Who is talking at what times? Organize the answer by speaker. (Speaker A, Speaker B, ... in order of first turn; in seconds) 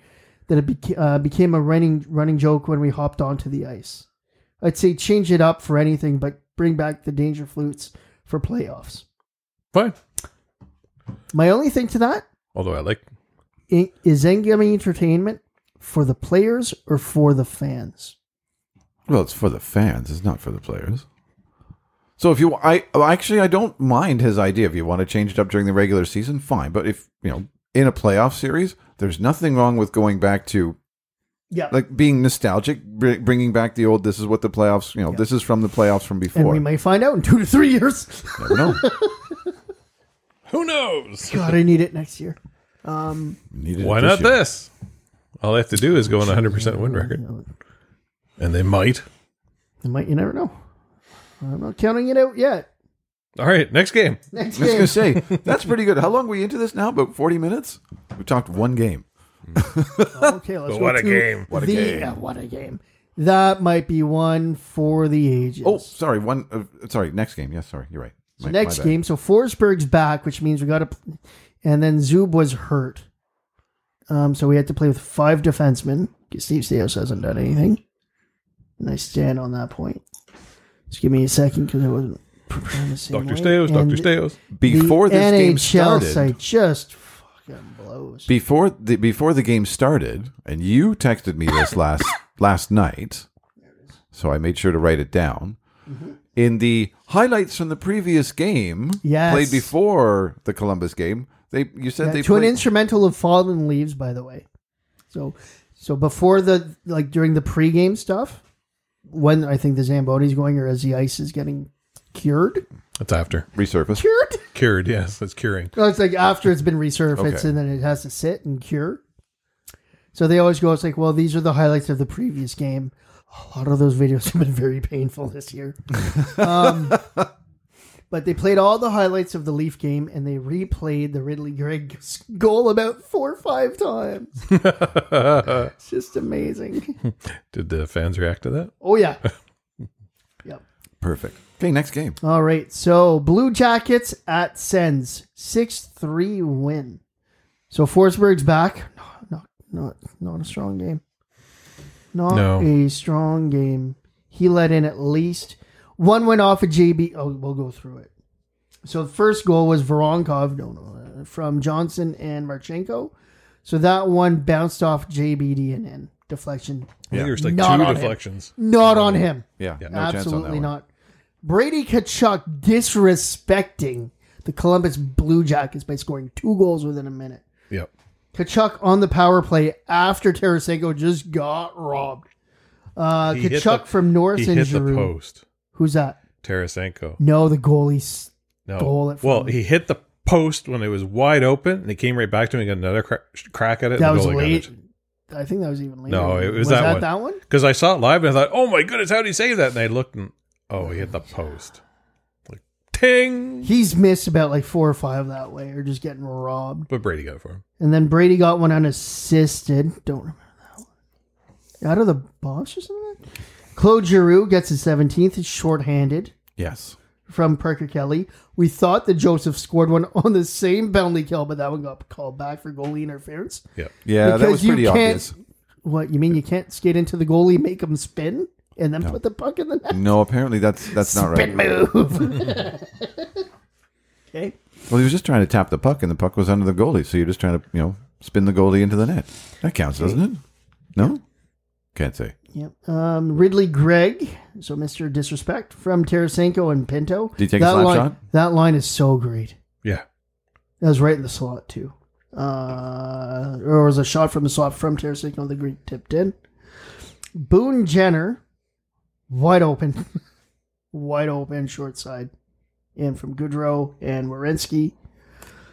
Speaker A: 0.5-4.1, 4.6-9.1, 11.3-12.2, 13.7-18.1, 36.3-39.5, 41.3-43.4, 46.2-47.5, 49.8-50.5, 51.4-52.7, 54.3-55.0, 60.1-65.9, 68.4-73.0, 74.1-77.8, 78.8-80.0, 80.9-84.1, 84.6-88.3, 95.9-96.2, 99.0-99.7, 102.0-104.5, 105.1-108.4, 109.1-112.7, 114.0-114.4, 115.8-119.0, 120.1-127.0, 128.1-134.5, 135.6-137.0, 138.8-139.2, 142.2-147.0, 147.7-151.0, 152.1-158.1, 158.8-163.1, 163.7-170.9, 171.4-177.4, 178.3-182.2, 183.0-185.1, 185.7-186.2, 187.2-189.6, 194.0-194.8, 195.3-197.4, 200.9-201.1, 203.6-206.9, 207.8-210.8, 211.8-213.2, 213.8-216.3, 217.3-223.6, 224.2-230.1, 230.9-233.4, 242.5-249.6, 250.8-256.4, 257.4-258.4, 259.3-260.1, 260.9-262.3, 263.0-264.9
Speaker B: 9.7-10.0, 12.6-13.0, 40.5-41.6, 43.8-44.7, 45.4-47.2, 48.4-49.0, 53.4-54.2, 60.7-61.5, 83.1-84.4, 113.0-113.5, 114.5-115.7, 134.5-135.7, 137.5-138.7, 152.3-152.7, 167.1-169.2, 183.2-185.4, 186.4-187.2, 188.7-194.7, 196.1-201.8, 202.5-203.7, 206.9-207.6
Speaker C: 19.1-21.1, 22.2-30.8, 31.7-36.6, 38.4-38.8, 43.5-44.4, 54.6-60.3, 61.5-62.1, 65.6-69.0, 84.5-86.3, 88.3-93.3, 94.1-95.6, 96.4-102.6, 113.5-114.0, 117.2-117.5, 126.2-127.3, 141.0-142.2, 167.1-167.4, 169.6-170.7, 216.6-217.0, 224.1-225.3, 229.9-231.7, 234.9-240.4, 241.9-242.3, 247.4-248.2